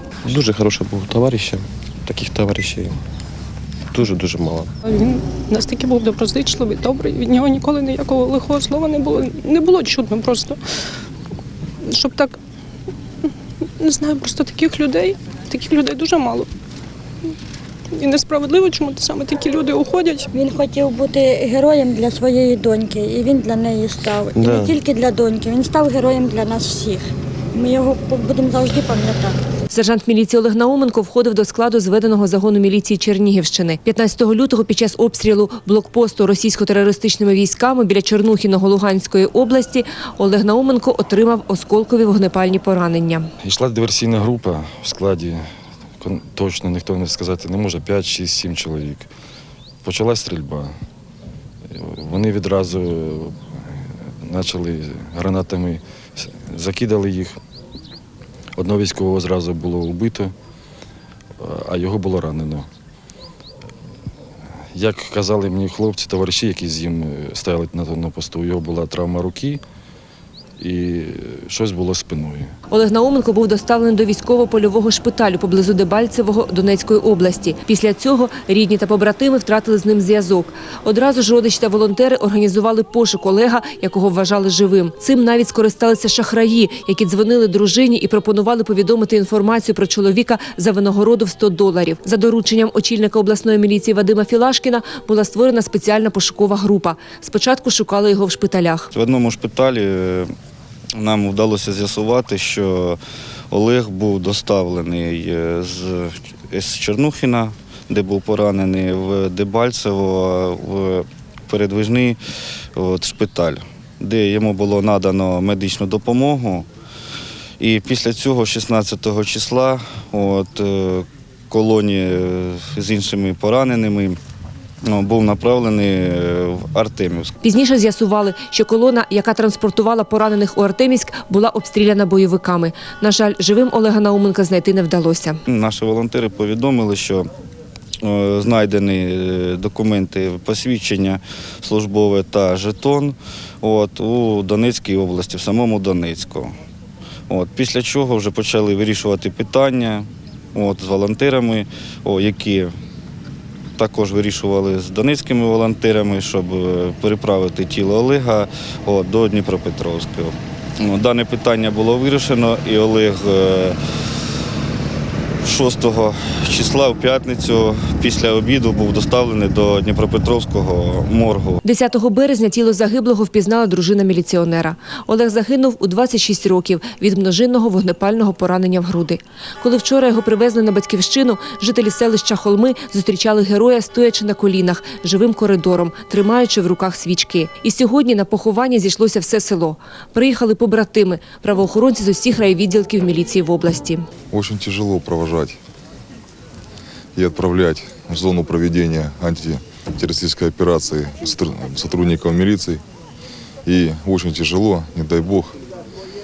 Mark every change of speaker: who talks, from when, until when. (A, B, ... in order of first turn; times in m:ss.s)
0:00.2-0:03.0 A
0:03.9-0:04.7 A
0:04.9-0:10.6 B
0:11.8-0:12.4 B
0:13.8-0:16.5 B
0:17.9-0:20.3 B
0:20.3-0:29.4 C
0:24.4-0:24.7 A
0:29.7-0:43.3 D
0:43.4-0:45.4 E
0:46.0-0:49.1 E
0:49.8-0:50.7 E
0:51.7-0:57.4 E
0:58.6-1:00.3 E
1:01.4-1:02.7 E
1:04.7-1:09.6 E
1:10.6-1:12.5 E
1:12.7-1:38.9 D
1:38.9-1:40.3 F
1:41.0-1:43.0 F
1:43.5-1:52.2 F
1:52.8-1:56.6 F
1:57.6-2:04.2 F
2:04.8-2:07.3 F
2:07.4-2:15.4 D
2:15.4-2:17.3 F
2:18.0-2:26.6 F
2:27.3-2:32.7 F
2:33.8-2:43.8 F
2:45.4-2:51.6 F
2:51.6-3:14.0 D
3:14.3-3:15.6 G
3:17.1-3:22.8 G
3:23.6-3:25.6 G